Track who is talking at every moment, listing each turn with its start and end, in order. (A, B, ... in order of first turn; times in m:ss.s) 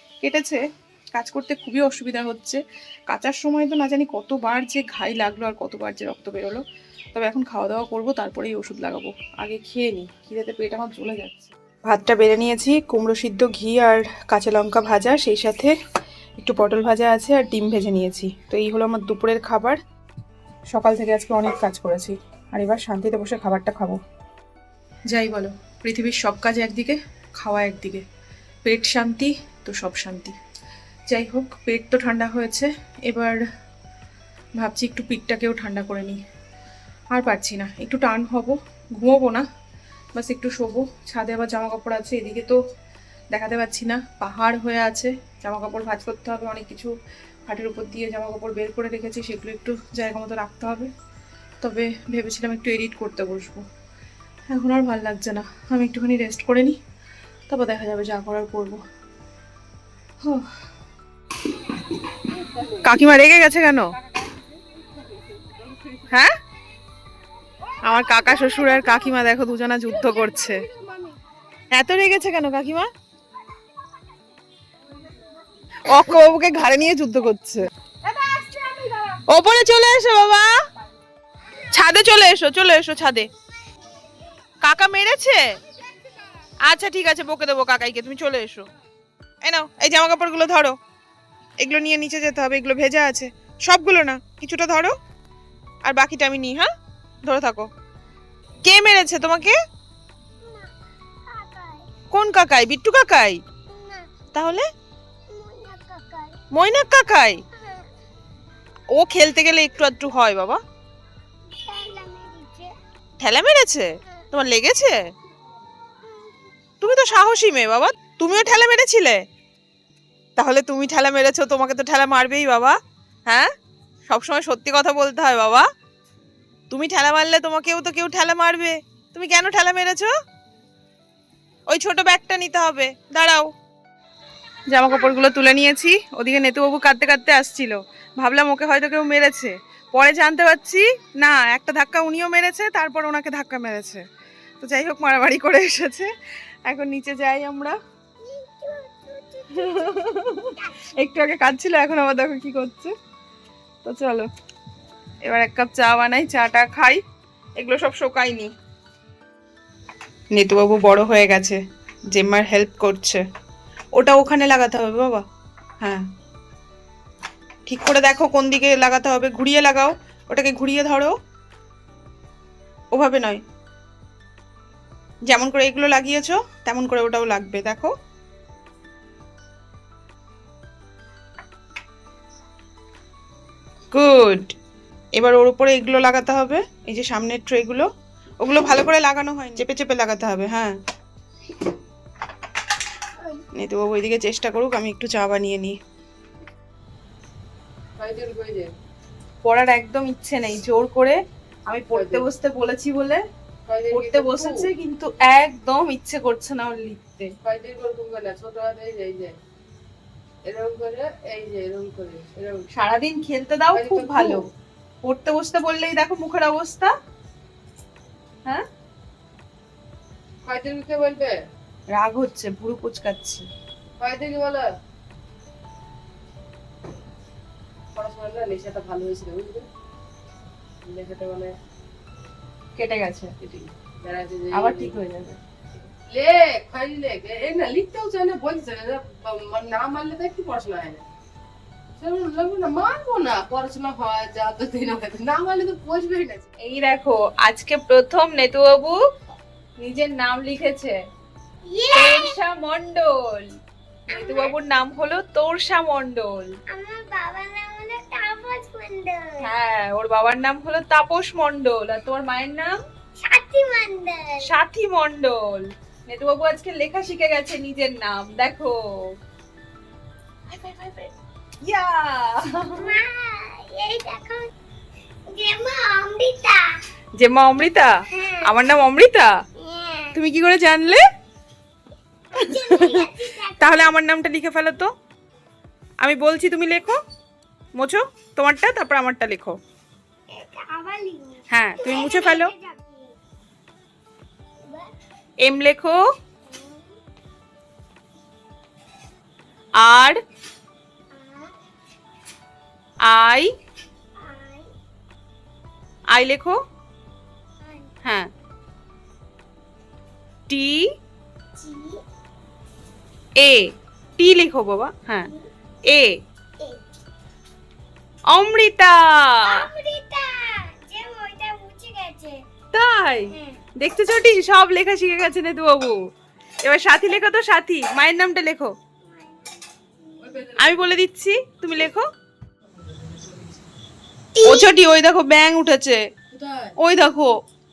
0:00.2-0:00.6 A
0:01.1-0:15.7 A
0:16.4-0:19.8 A
0:20.7-0:24.0 A
0:25.1-0:28.0 A
0:28.6-0:30.3 A
0:31.1-0:33.4 A
0:34.6-0:36.2 A
0:37.1-0:39.4 A
0:40.1-0:42.6 A
0:43.3-0:46.9 A
0:47.5-0:50.9 A
0:51.6-0:53.6 A
0:54.5-0:56.8 A
0:57.5-0:58.8 A
1:02.3-1:02.9 B
1:02.8-1:03.9 A
1:05.2-1:06.0 B
1:07.8-1:10.6 A
1:09.9-1:11.2 B
1:11.7-1:12.9 A
1:15.9-1:17.6 A
1:18.1-1:19.2 B
1:19.3-1:20.5 A
1:21.7-1:23.3 A
1:24.6-1:25.4 A
1:26.6-1:28.7 A
1:29.4-1:30.8 A
1:31.6-1:34.9 A
1:35.8-1:36.7 A
1:37.2-1:37.7 A
1:38.6-1:39.6 A
1:40.4-1:40.7 C
1:41.3-1:41.9 C
1:42.1-1:43.4 A
1:43.7-1:44.1 C
1:44.3-1:44.6 A
1:45.3-1:46.4 C
1:46.5-1:47.4 A
1:47.6-1:47.9 C
1:48.9-1:50.6 A
1:51.5-1:52.7 C
1:53.2-1:55.0 A
1:56.8-1:59.2 A
2:00.4-2:03.5 A
2:04.1-2:05.6 A
2:06.7-2:10.1 A
2:11.7-2:13.5 A
2:14.7-2:24.0 A
2:24.6-2:26.1 A
2:26.7-2:27.8 A
2:28.2-2:30.9 C
2:29.6-2:32.9 A
2:33.8-2:34.3 A
2:35.2-2:37.0 A
2:37.6-2:38.5 A
2:40.3-2:41.6 A
2:42.1-2:43.2 A
2:44.0-2:45.2 A
2:47.7-2:51.1 A
2:52.9-2:53.4 A
2:55.3-2:57.9 A
3:03.9-3:04.5 A
3:05.2-3:07.9 A
3:08.4-3:10.8 A
3:13.6-3:15.8 A
3:18.0-3:18.7 B
3:19.4-3:23.2 A
3:21.9-3:22.2 B
3:23.7-3:24.7 B
3:23.9-3:27.3 A
3:27.4-3:29.4 B
3:30.4-3:32.7 B
3:32.7-3:34.4 A
3:33.7-3:34.4 B
3:35.0-3:36.9 A
3:40.4-3:41.4 B
3:41.9-3:43.4 A
3:44.0-3:44.6 B
3:47.9-3:49.6 B
3:50.8-3:51.5 B
3:52.8-3:53.7 A
3:54.0-3:55.3 B
3:54.5-3:55.3 A
3:56.1-4:01.0 B
4:02.0-4:06.4 B
4:06.6-4:09.0 A
4:09.8-4:11.0 A
4:11.6-4:12.4 C
4:11.9-4:13.4 A
4:14.1-4:16.5 A
4:14.1-4:14.6 C
4:16.7-4:19.5 C
4:19.4-4:22.7 A
4:23.2-4:24.5 C
4:24.4-4:28.7 A
4:30.5-4:31.1 A
4:31.6-4:33.0 A
4:32.8-4:34.5 C
4:35.3-4:36.6 C
4:37.2-4:39.3 A
4:38.1-4:38.5 C
4:39.6-4:40.2 C
4:40.1-4:41.0 A
4:42.3-4:43.9 C
4:42.5-4:44.9 A
4:46.0-4:47.0 A
4:47.8-4:49.6 A
4:50.3-4:53.2 C
4:51.5-4:52.5 A
4:55.4-4:56.0 A
4:56.4-4:56.9 C
4:59.8-5:00.2 A
5:01.1-5:01.5 C
5:03.0-5:03.5 A
5:04.2-5:04.7 C
5:06.1-5:06.6 A
5:07.6-5:08.0 C
5:08.0-5:08.3 A
5:10.5-5:10.9 A
5:11.6-5:12.0 C
5:13.4-5:15.3 A
5:15.9-5:16.2 A
5:18.3-5:19.7 A
5:19.5-5:22.4 C
5:22.7-5:26.0 A
5:23.3-5:23.6 C
5:26.6-5:28.7 A
5:29.0-5:29.3 C
5:30.2-5:30.8 B
5:30.6-5:32.0 A
5:33.0-5:33.3 B
5:34.4-5:34.8 C
5:34.4-5:36.0 A
5:36.3-5:36.7 B
5:36.8-5:37.4 A